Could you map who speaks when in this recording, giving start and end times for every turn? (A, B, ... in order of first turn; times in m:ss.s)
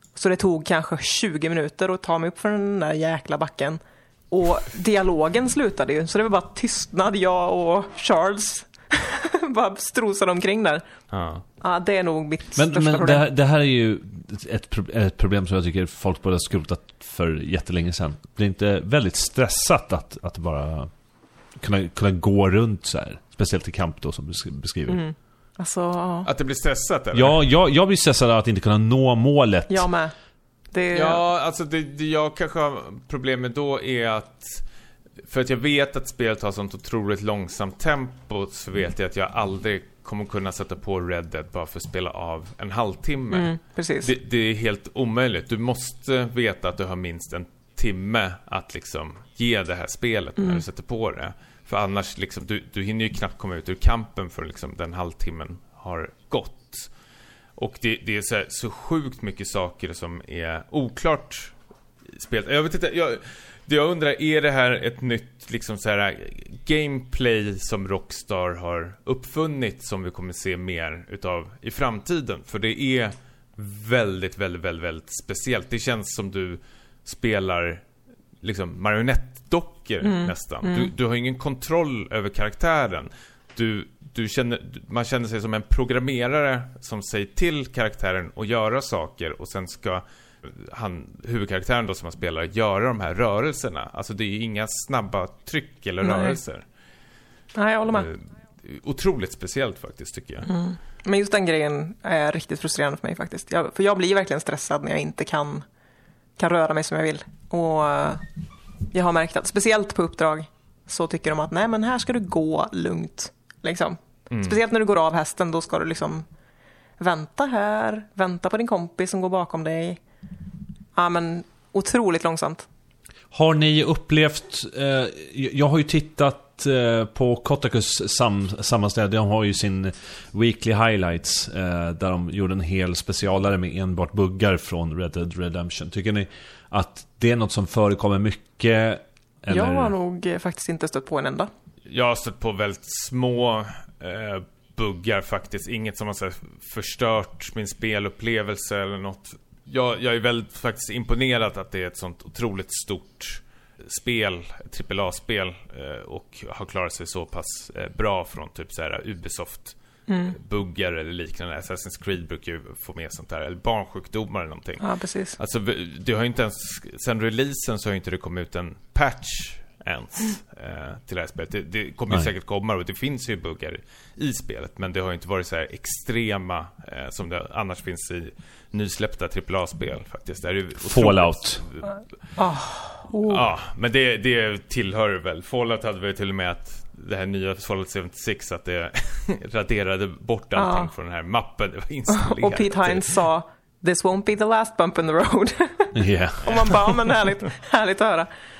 0:00.2-0:10.8 A
0:11.1-0:11.4 B
0:11.6-0:13.3 A
0:12.6-0:20.9 C
0:21.6-0:25.0 C
0:24.9-0:26.3 A
0:26.2-0:27.4 B
0:27.1-0:29.9 C
0:29.7-0:30.1 A
0:30.7-0:31.2 A
0:30.9-0:34.6 B
0:35.3-0:56.9 B
0:43.3-0:44.1 A
0:50.4-0:50.6 A
0:57.6-1:01.6 B
1:02.1-1:17.8 B
1:18.4-1:36.6 B
1:20.0-1:20.9 A
1:36.0-1:36.4 A
1:37.6-1:38.1 A
1:37.9-1:40.5 B
1:40.5-1:45.6 A
1:46.4-1:48.2 A
1:48.9-1:56.2 A
1:54.3-1:54.6 B
1:57.0-2:00.0 A
2:01.0-2:02.7 A
2:03.3-2:19.9 C
2:19.5-2:21.5 A
2:21.9-3:01.9 B
2:40.1-2:40.4 A
2:44.8-2:45.4 A
3:00.8-3:01.6 C
3:02.4-3:03.5 A
3:03.2-3:13.2 B
3:10.6-3:10.9 A
3:12.1-3:18.3 A
3:15.9-3:16.7 C